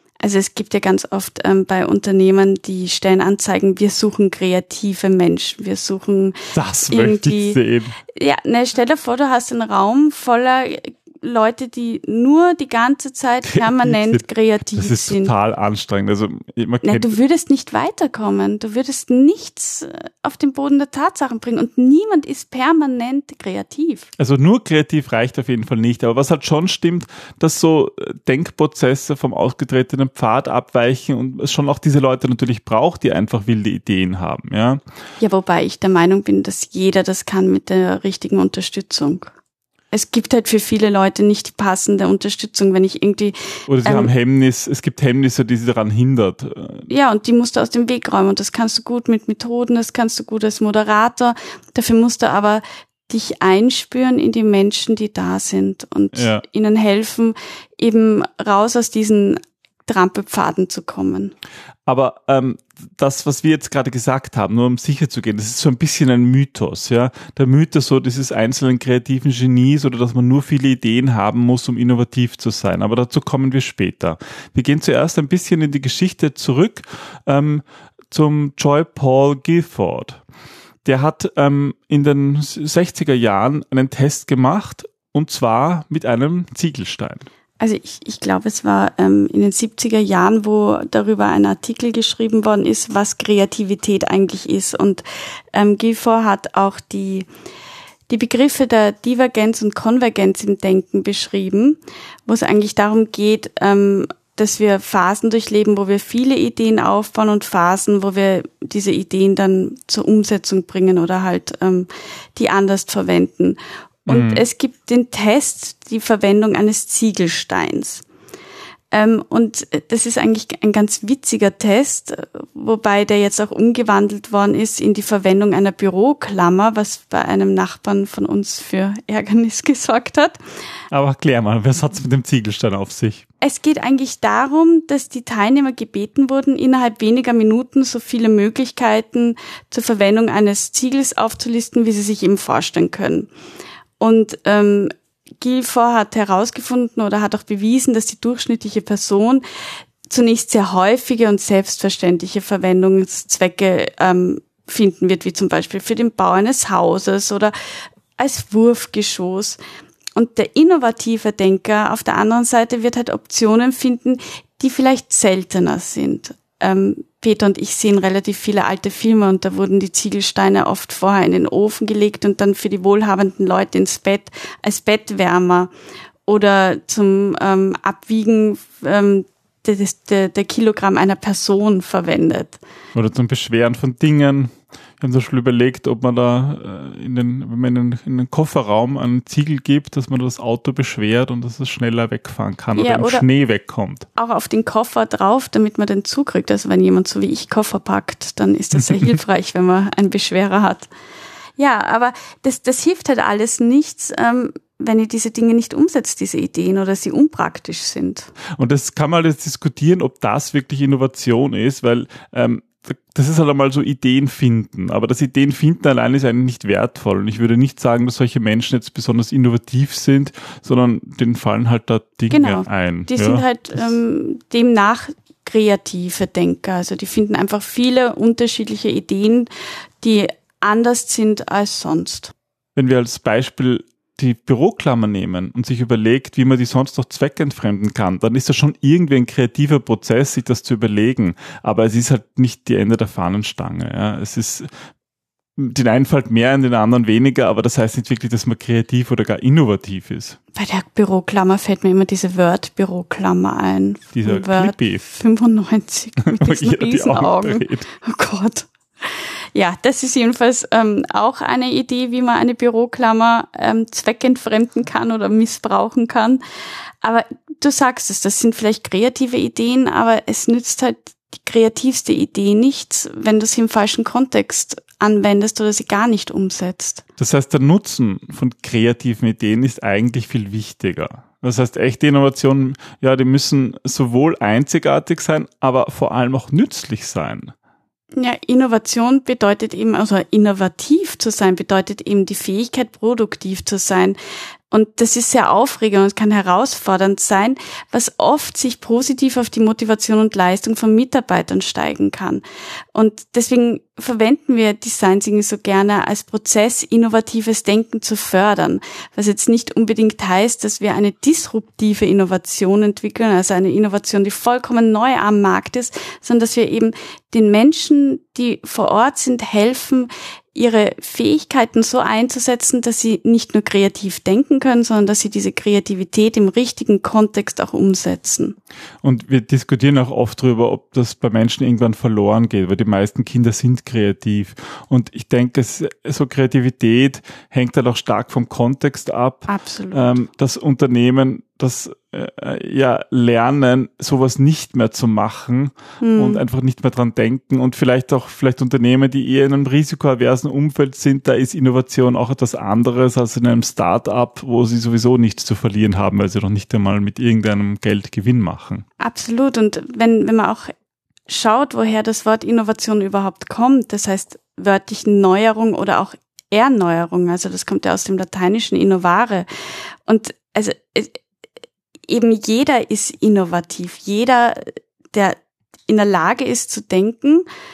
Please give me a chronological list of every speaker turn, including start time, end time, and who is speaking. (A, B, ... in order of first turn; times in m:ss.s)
0:00.2-0:07.6 A
0:06.5-0:08.0 B
0:08.1-0:15.3 A
0:13.5-0:17.1 B
0:16.8-0:24.1 A
0:24.2-0:34.8 B
0:35.2-0:39.3 A
0:39.9-0:44.1 A
0:43.7-0:46.9 B
0:46.9-1:01.3 A
0:56.1-0:56.4 B
1:01.8-1:20.2 B
1:20.8-1:27.2 B
1:27.6-1:37.3 A
1:38.1-1:58.0 A
1:54.1-1:54.4 B
1:58.9-2:10.4 A
2:10.9-2:13.2 B
2:13.4-2:23.3 A
2:24.0-2:29.4 A
2:30.1-2:37.5 A
2:38.2-2:39.6 A
2:40.2-2:55.7 A
2:56.3-3:02.6 A
3:02.9-3:14.1 B
3:12.7-3:13.2 A
3:14.2-3:20.9 A
3:18.8-3:19.1 B
3:21.6-3:28.3 A
3:28.6-3:43.9 B
3:42.3-3:49.5 A
3:50.0-3:52.3 A
3:52.8-4:04.7 B
4:05.6-4:10.4 B
4:10.6-4:26.4 A
4:14.1-4:15.0 B
4:16.2-4:17.9 B
4:27.0-4:37.0 A
4:37.2-4:47.5 B
4:48.2-4:54.2 A
4:54.7-5:28.5 A
5:29.0-5:58.8 B
5:39.5-5:40.2 A
5:46.0-5:46.4 A
5:59.0-6:00.7 A
6:01.3-6:09.5 A
6:10.0-6:11.2 A
6:12.1-6:17.4 A